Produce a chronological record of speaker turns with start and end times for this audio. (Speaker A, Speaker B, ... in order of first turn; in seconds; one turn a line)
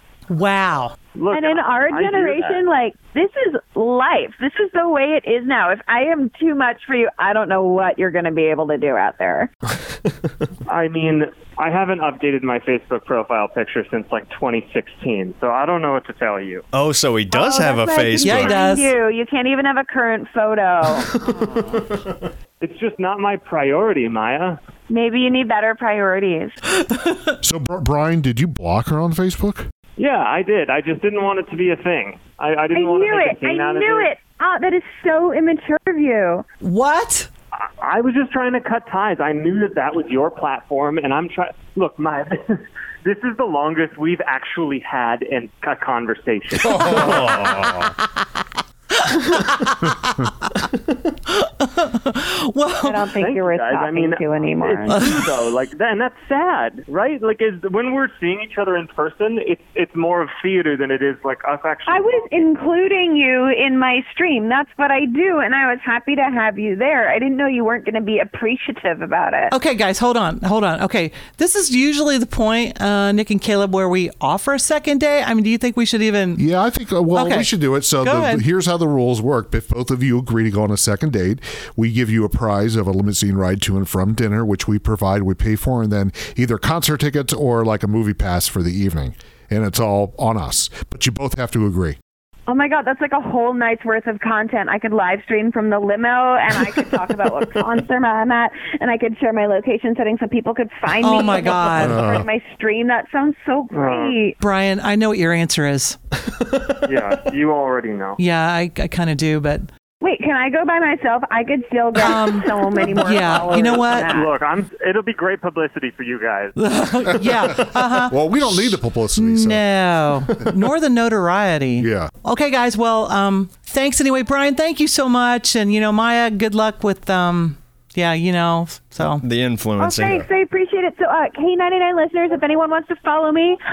Speaker A: 0.3-0.9
Speaker B: 1.1-2.6
Speaker C: 1.3-9.5
Speaker D: 9.7-10.5
Speaker B: 10.7-16.6
Speaker D: 16.7-18.6
Speaker C: 17.3-21.1
Speaker A: 18.2-18.9
Speaker D: 21.0-22.0
Speaker B: 22.6-24.6
Speaker C: 24.9-26.6
Speaker A: 26.9-27.3
Speaker E: 27.4-29.6
Speaker B: 30.0-34.1
Speaker C: 32.7-36.4
Speaker A: 36.6-37.3
Speaker B: 37.5-47.1
Speaker D: 46.6-47.9
Speaker A: 46.7-48.4
Speaker A: 49.0-50.6
Speaker A: 51.2-53.1
Speaker C: 52.8-55.0
Speaker B: 53.2-62.5
Speaker C: 61.9-69.5
Speaker A: 69.5-76.4
Speaker E: 76.4-92.0
Speaker A: 77.1-78.4
Speaker C: 92.5-104.3
Speaker A: 101.0-102.0
Speaker E: 101.7-102.3
Speaker B: 103.7-104.2
Speaker A: 104.4-106.0
Speaker B: 106.8-108.2
Speaker A: 108.2-109.7
Speaker C: 110.0-114.3
Speaker A: 112.0-114.1
Speaker B: 113.4-116.6
Speaker A: 116.6-129.2
Speaker E: 118.1-119.7
Speaker E: 121.8-122.1
Speaker D: 129.0-130.3
Speaker C: 129.8-133.6